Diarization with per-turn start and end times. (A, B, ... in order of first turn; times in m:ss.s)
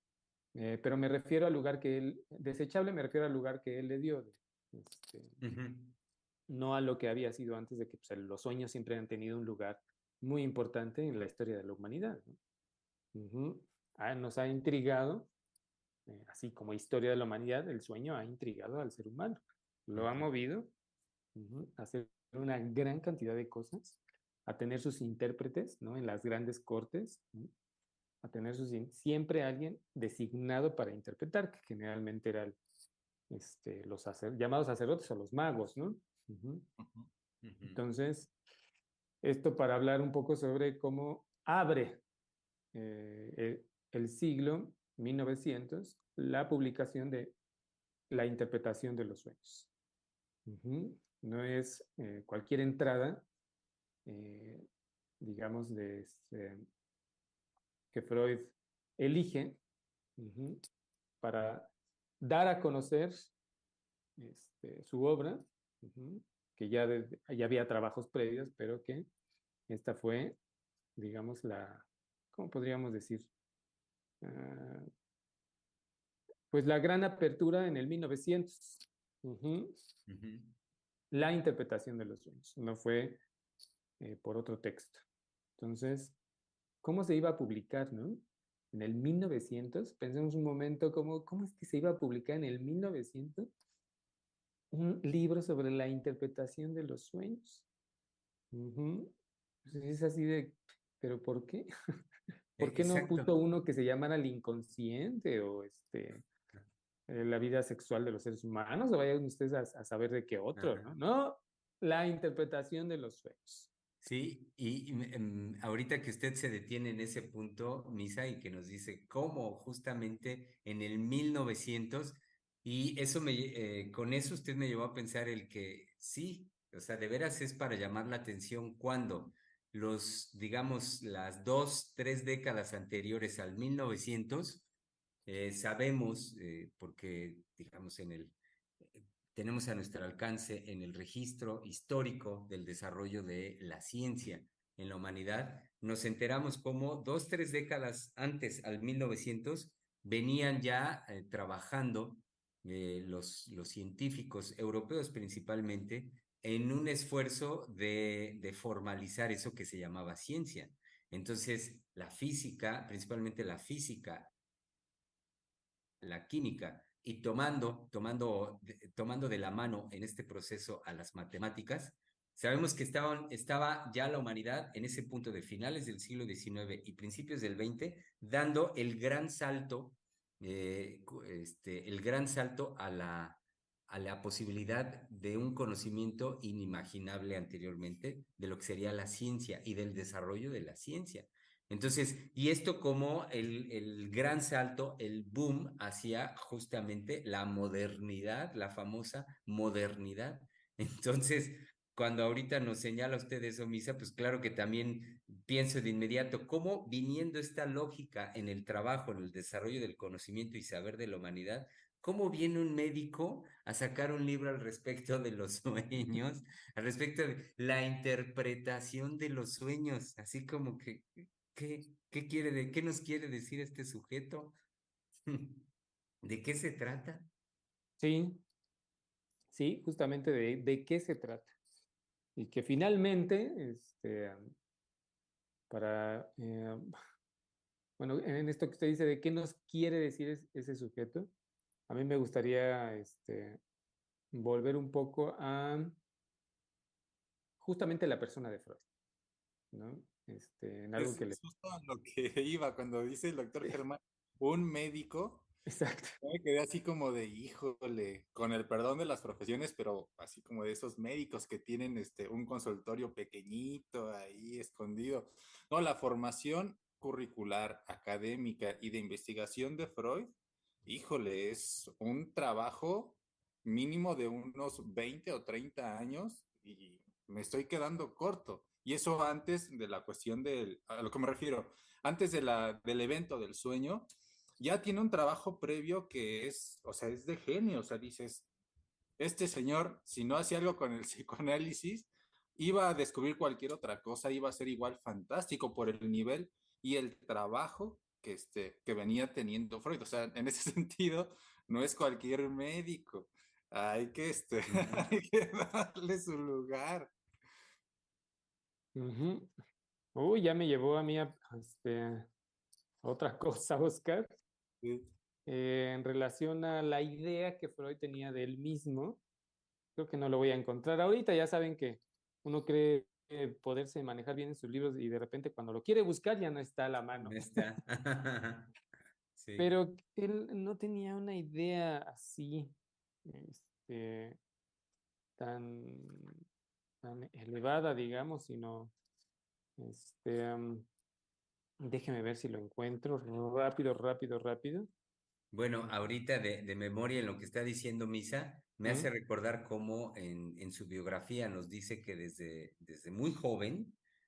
0:00.5-0:05.4 A
0:05.4-0:06.0 B
0:06.5-0:12.4 A
0:13.1-0:15.3 A
0:16.1-0:20.7 A
0:19.9-0:20.2 B
0:21.3-0:27.5 A
0:28.2-0:32.6 A
0:33.3-0:36.7 A
0:36.8-0:37.1 C
0:37.4-0:37.8 B
0:37.6-0:38.3 A
0:39.2-0:42.0 A
0:42.7-0:47.3 A
0:48.1-0:49.7 A
0:50.5-0:53.2 A
0:54.0-0:54.6 A
0:55.2-0:56.6 A
0:57.9-0:59.6 A
1:00.2-1:00.6 A
1:01.2-1:03.3 A
1:04.2-1:09.1 A
1:09.7-1:10.4 A
1:11.0-1:13.3 A
1:14.2-1:14.9 A
1:16.5-1:19.7 A
1:20.1-1:20.6 B
1:21.1-1:23.2 A
1:24.0-1:25.0 A
1:25.6-1:26.2 A
1:26.8-1:33.5 A
1:34.7-1:37.6 A
1:38.5-1:39.1 A
1:39.6-1:41.7 A
1:42.6-1:46.2 A
1:42.6-1:43.4 B
1:47.1-1:53.7 A
1:50.6-1:50.9 B
1:54.0-2:14.7 B
2:15.2-2:44.3 B
2:46.0-3:44.6 B
3:45.2-3:45.7 B
3:46.2-3:47.3 B
3:48.0-3:48.4 A
3:49.5-3:51.5 A
3:52.4-3:54.4 A
3:55.7-3:56.8 A
3:58.0-4:01.3 A
4:01.9-4:03.6 A
4:04.3-4:06.0 A
4:07.6-4:08.8 A
4:09.7-4:11.4 A
4:11.0-4:15.5 C
4:15.7-4:16.2 A
4:16.2-4:30.3 C
4:30.8-4:44.1 C
4:44.6-4:48.5 C
4:49.2-5:07.1 C
5:04.7-5:05.0 B
5:08.9-5:09.5 A
5:10.1-5:12.3 A
5:13.0-5:14.3 A
5:14.8-5:15.1 C
5:15.5-5:19.2 A
5:20.0-5:27.4 A
5:27.2-5:28.7 B
5:29.4-5:29.7 B
5:29.6-5:34.4 A
5:35.4-5:36.3 A
5:37.0-5:38.9 A
5:39.8-5:40.9 A
5:41.8-5:44.9 A
5:45.5-5:54.0 B